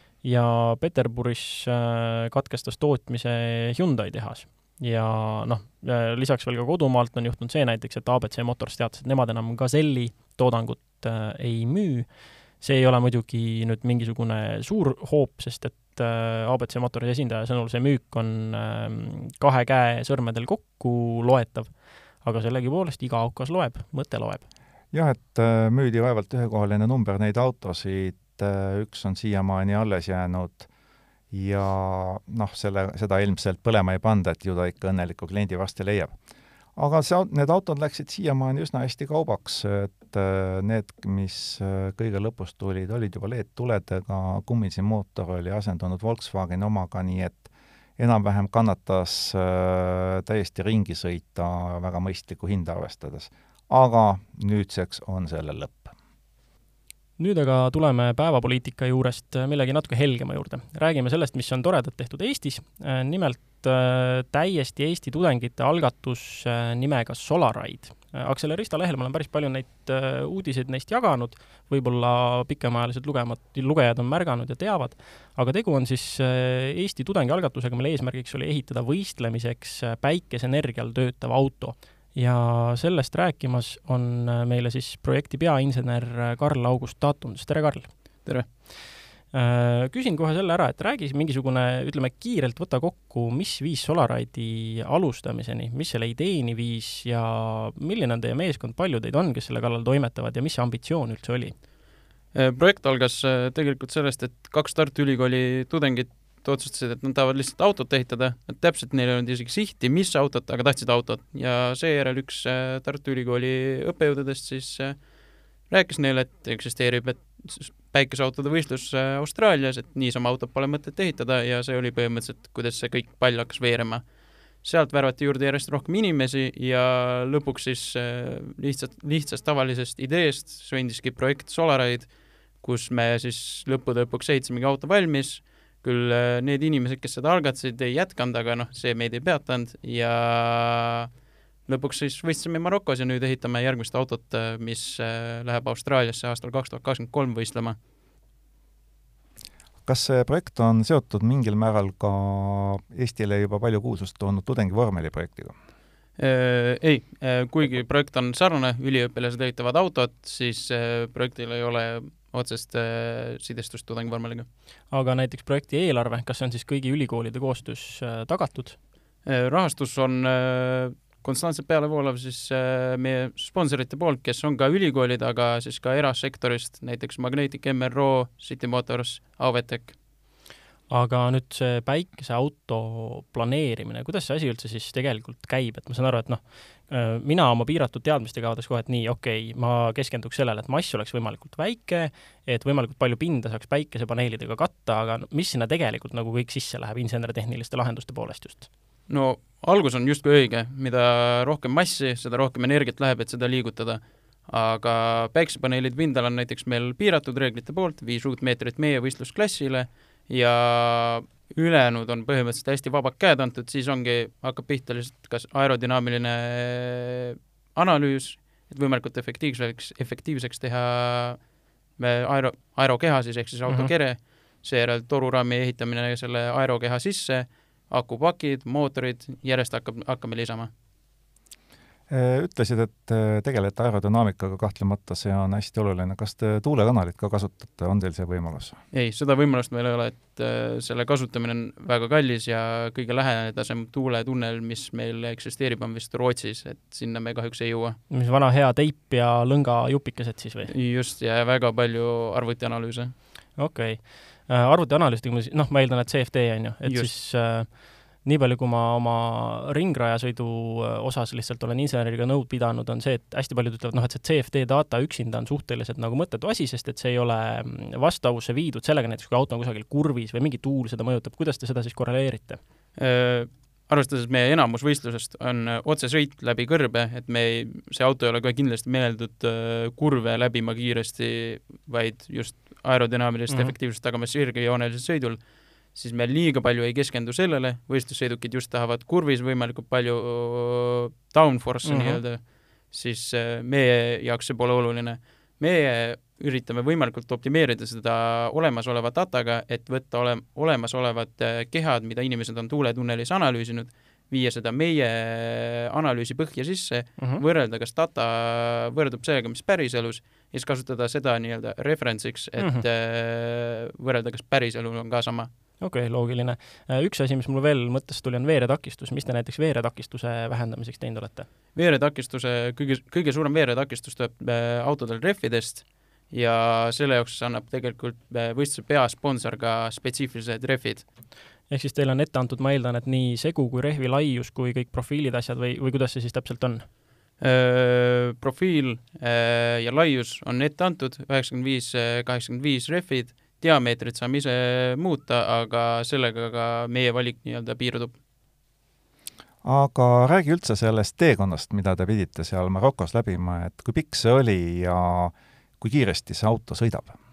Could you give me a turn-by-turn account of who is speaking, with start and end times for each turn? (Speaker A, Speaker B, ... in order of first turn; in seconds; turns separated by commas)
Speaker A: 0.2-24.4, Speaker B: 24.9-30.7, Speaker B: 31.3-36.1, Speaker B: 36.8-55.9, Speaker A: 57.2-87.9, Speaker A: 89.3-101.6, Speaker C: 102.3-115.0, Speaker C: 115.7-124.0, Speaker C: 124.6-132.1, Speaker C: 132.6-141.1, Speaker C: 141.7-147.8, Speaker B: 149.9-155.5, Speaker C: 156.2-164.5, Speaker A: 164.9-168.8, Speaker C: 169.2-180.0, Speaker A: 180.9-198.7, Speaker C: 199.1-221.4, Speaker C: 222.0-230.7, Speaker B: 232.1-238.8, Speaker C: 238.9-248.0, Speaker A: 248.1-250.7, Speaker C: 250.7-253.1, Speaker A: 253.6-272.6, Speaker C: 256.8-257.1, Speaker C: 273.0-285.4, Speaker C: 285.9-315.5, Speaker A: 291.9-292.2, Speaker A: 307.2-307.4, Speaker A: 312.6-312.9, Speaker A: 315.8-321.5, Speaker C: 321.8-331.1, Speaker A: 331.7-336.9, Speaker C: 337.4-348.2, Speaker B: 349.6-357.2